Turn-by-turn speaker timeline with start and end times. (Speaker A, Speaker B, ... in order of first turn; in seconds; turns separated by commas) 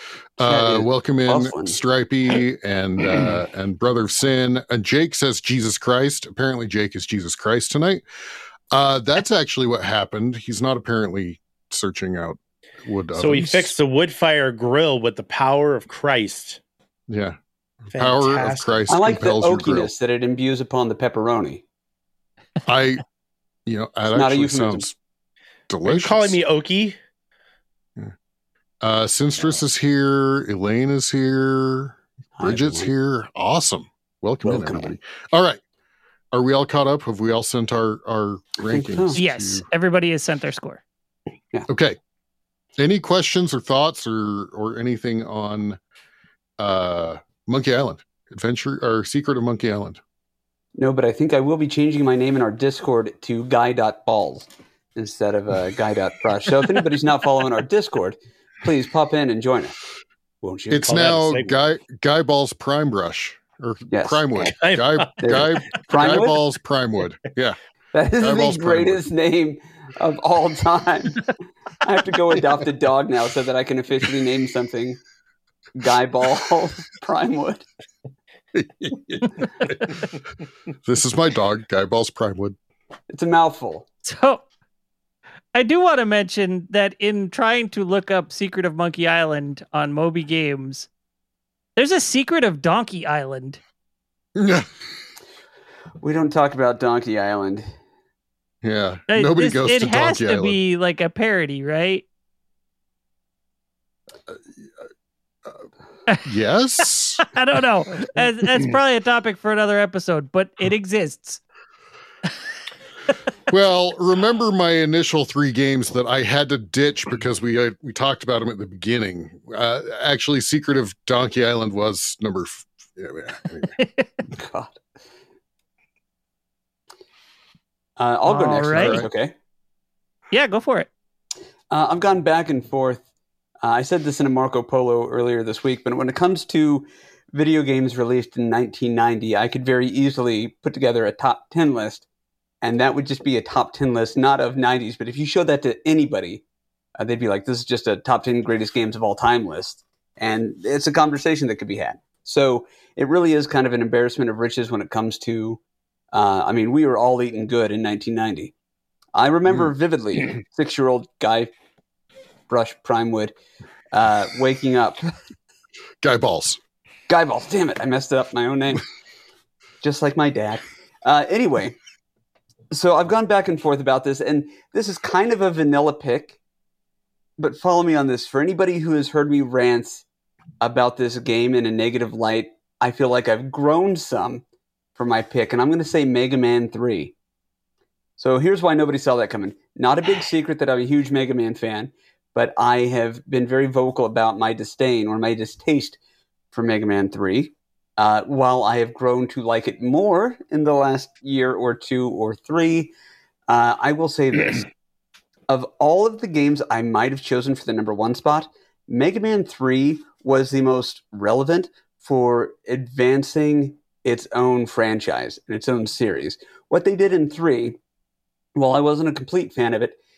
Speaker A: 0.4-8.0, Speaker B: 0.4-1.8, Speaker A: 8.7-13.8, Speaker C: 13.2-16.6, Speaker A: 17.1-17.4, Speaker A: 17.9-19.9, Speaker C: 17.9-18.9, Speaker B: 18.9-21.6, Speaker A: 22.7-23.0, Speaker A: 23.7-24.9, Speaker B: 24.1-24.9, Speaker A: 25.7-26.4, Speaker C: 25.9-27.0, Speaker A: 28.8-35.6, Speaker B: 32.4-32.9, Speaker B: 34.4-35.0, Speaker A: 36.3-39.6, Speaker B: 38.6-39.2, Speaker D: 39.1-40.8, Speaker A: 41.7-42.0, Speaker A: 42.8-45.8, Speaker A: 46.6-50.0, Speaker B: 50.8-59.8, Speaker B: 60.4-61.1, Speaker A: 60.7-67.6, Speaker C: 60.8-61.6, Speaker B: 63.9-64.3, Speaker C: 64.4-65.5, Speaker B: 65.2-66.4, Speaker B: 67.9-75.0, Speaker A: 68.2-69.0, Speaker B: 75.8-77.7, Speaker A: 78.5-80.0, Speaker A: 80.8-82.6, Speaker B: 83.1-83.9, Speaker D: 84.0-84.5, Speaker D: 85.5-90.9, Speaker D: 91.8-93.6, Speaker A: 94.4-94.7, Speaker B: 96.0-97.7, Speaker A: 98.6-100.6, Speaker D: 99.1-102.0, Speaker A: 106.2-107.3, Speaker D: 107.2-111.4, Speaker A: 113.5-123.7, Speaker D: 123.8-124.1, Speaker B: 124.3-124.8, Speaker B: 128.0-129.3, Speaker D: 128.3-129.0, Speaker A: 128.7-129.1, Speaker D: 130.3-130.9, Speaker B: 131.7-133.0, Speaker B: 133.6-142.1, Speaker B: 142.6-146.4, Speaker B: 147.0-155.6, Speaker B: 156.1-158.5, Speaker B: 159.2-161.5, Speaker B: 162.5-163.3, Speaker B: 163.9-165.1, Speaker A: 166.0-166.6, Speaker B: 167.1-168.9, Speaker B: 169.8-171.8, Speaker B: 172.7-176.4, Speaker B: 177.4-180.1, Speaker B: 180.6-184.4, Speaker B: 185.0-187.2, Speaker B: 188.2-196.0, Speaker B: 196.5-202.9, Speaker B: 203.5-204.7, Speaker B: 205.5-217.8, Speaker B: 218.6-220.0